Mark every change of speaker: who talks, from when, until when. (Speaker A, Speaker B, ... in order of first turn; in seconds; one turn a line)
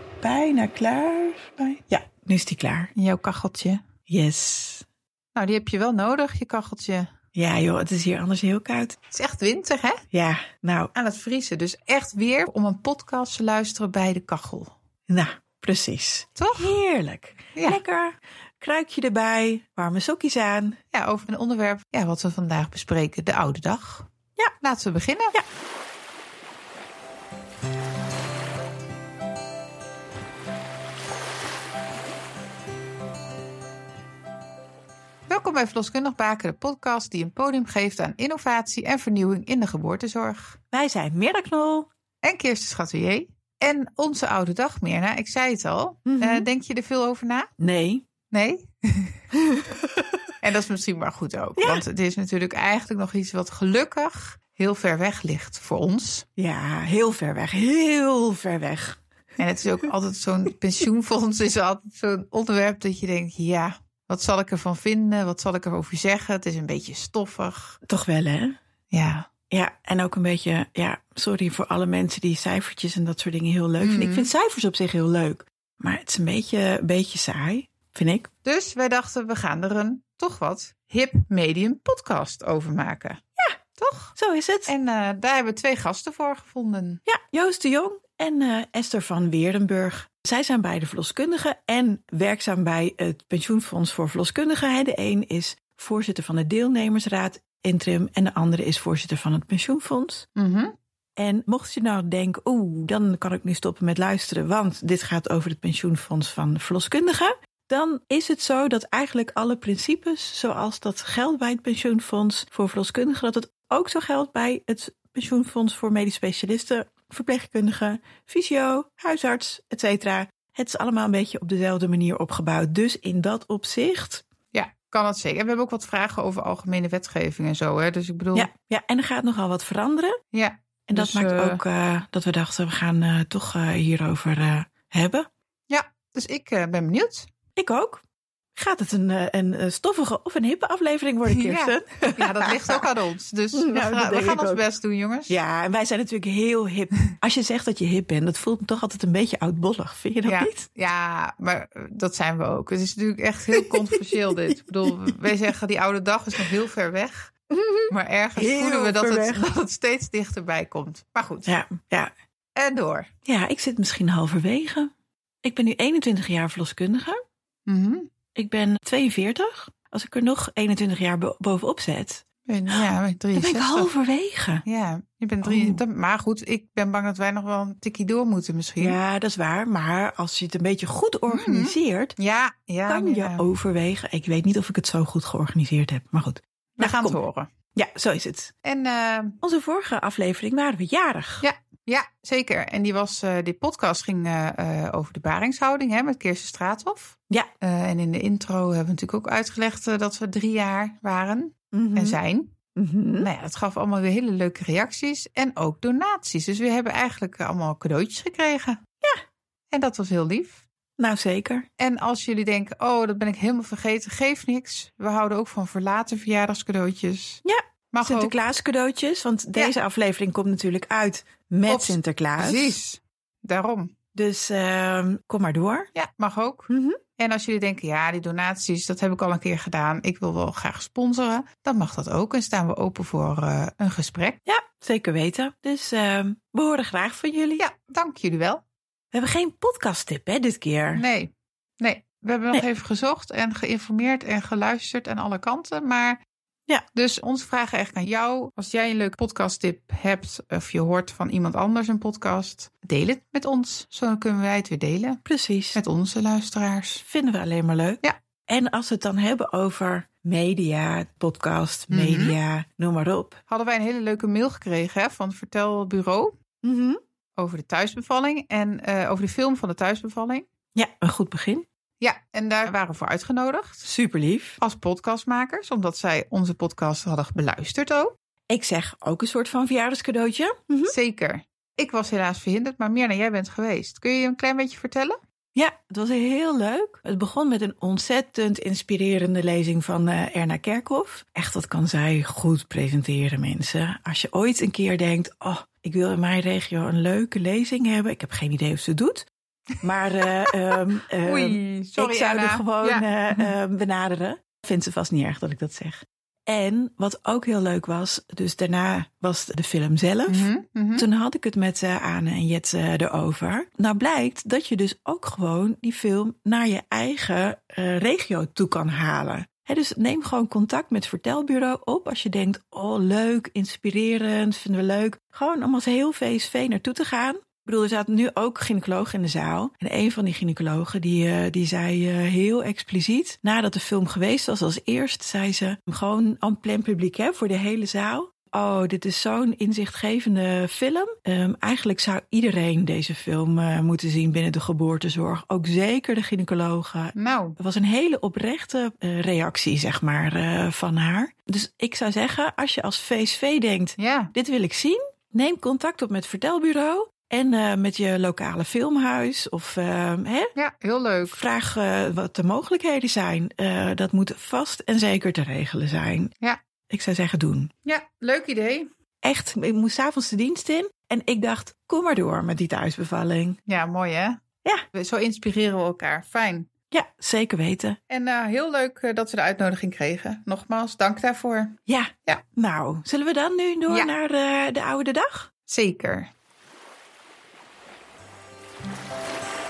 Speaker A: 0.2-2.9
Speaker B: 3.0-3.8
Speaker A: 4.1-4.8
Speaker B: 5.3-7.1
Speaker A: 7.3-9.0
Speaker B: 9.1-10.0
Speaker A: 10.1-10.9
Speaker B: 10.9-14.7
Speaker A: 15.1-20.8
Speaker B: 16.4-16.7
Speaker B: 20.9-24.1
Speaker B: 24.6-25.4
Speaker B: 35.3-40.6
Speaker A: 40.7-41.9
Speaker B: 42.2-47.5
Speaker A: 46.0-46.5
Speaker A: 47.6-48.0
Speaker B: 48.3-49.2
Speaker A: 49.4-50.3
Speaker B: 50.4-56.2
Speaker A: 51.6-51.8
Speaker A: 56.4-59.0
Speaker B: 59.4-67.8
Speaker A: 67.8-68.6
Speaker B: 68.9-69.3
Speaker A: 69.5-78.3
Speaker B: 73.8-74.3
Speaker B: 78.4-83.2
Speaker B: 83.8-84.1
Speaker A: 84.2-84.7
Speaker B: 84.7-87.0
Speaker A: 87.0-100.2
Speaker B: 100.3-100.7
Speaker A: 101.2-124.2
Speaker B: 124.5-128.5
Speaker A: 128.3-130.2
Speaker B: 130.3-131.6
Speaker A: 130.9-135.3
Speaker B: 135.7-137.3
Speaker A: 137.6-138.0
Speaker A: 138.5-142.8
Speaker B: 141.3-145.4
Speaker A: 143.5-144.6
Speaker A: 145.3-150.7
Speaker B: 150.2-157.3
Speaker A: 153.5-155.3
Speaker A: 157.5-159.6
Speaker B: 157.9-161.5
Speaker A: 161.4-162.1
Speaker B: 162.6-163.1
Speaker A: 163.2-164.9
Speaker A: 165.4-167.2
Speaker B: 167.7-168.1
Speaker A: 168.3-174.6
Speaker B: 172.5-173.9
Speaker B: 174.7-178.9
Speaker A: 175.4-175.8
Speaker A: 178.8-182.2
Speaker B: 181.3-183.4
Speaker A: 182.9-187.2
Speaker B: 186.8-187.5
Speaker A: 187.7-188.5
Speaker B: 188.6-189.4
Speaker A: 189.4-191.4
Speaker B: 191.4-202.5
Speaker A: 201.7-202.2
Speaker A: 202.8-203.3
Speaker B: 203.2-208.8
Speaker B: 209.7-210.6
Speaker A: 211.0-211.7
Speaker B: 211.8-217.4
Speaker A: 217.4-222.8
Speaker B: 217.9-218.3
Speaker B: 221.7-223.9
Speaker A: 224.1-225.9
Speaker B: 225.9-234.4
Speaker A: 226.7-227.0
Speaker A: 234.4-237.6
Speaker B: 237.6-238.6
Speaker A: 239.1-241.1
Speaker B: 240.9-246.2
Speaker B: 246.9-255.2
Speaker A: 255.2-255.8
Speaker B: 255.7-257.0
Speaker A: 257.0-263.4
Speaker B: 261.9-262.4
Speaker B: 263.5-266.3
Speaker A: 266.6-267.0
Speaker B: 267.4-270.5
Speaker A: 270.7-271.6
Speaker B: 272.0-273.9
Speaker A: 273.8-274.6
Speaker B: 274.6-278.1
Speaker A: 278.5-280.9
Speaker B: 280.9-285.2
Speaker A: 285.5-299.3
Speaker A: 299.8-360.5
Speaker B: 301.2-303.5
Speaker B: 310.3-311.1
Speaker B: 347.1-347.6
Speaker B: 354.0-354.3
Speaker B: 360.6-361.4
Speaker A: 361.3-366.3
Speaker A: 366.9-367.7
Speaker B: 367.8-368.9
Speaker A: 369.2-373.6
Speaker B: 373.7-374.4
Speaker B: 374.9-376.7
Speaker A: 376.9-378.0
Speaker B: 378.1-382.4
Speaker A: 381.9-385.5
Speaker B: 385.7-386.3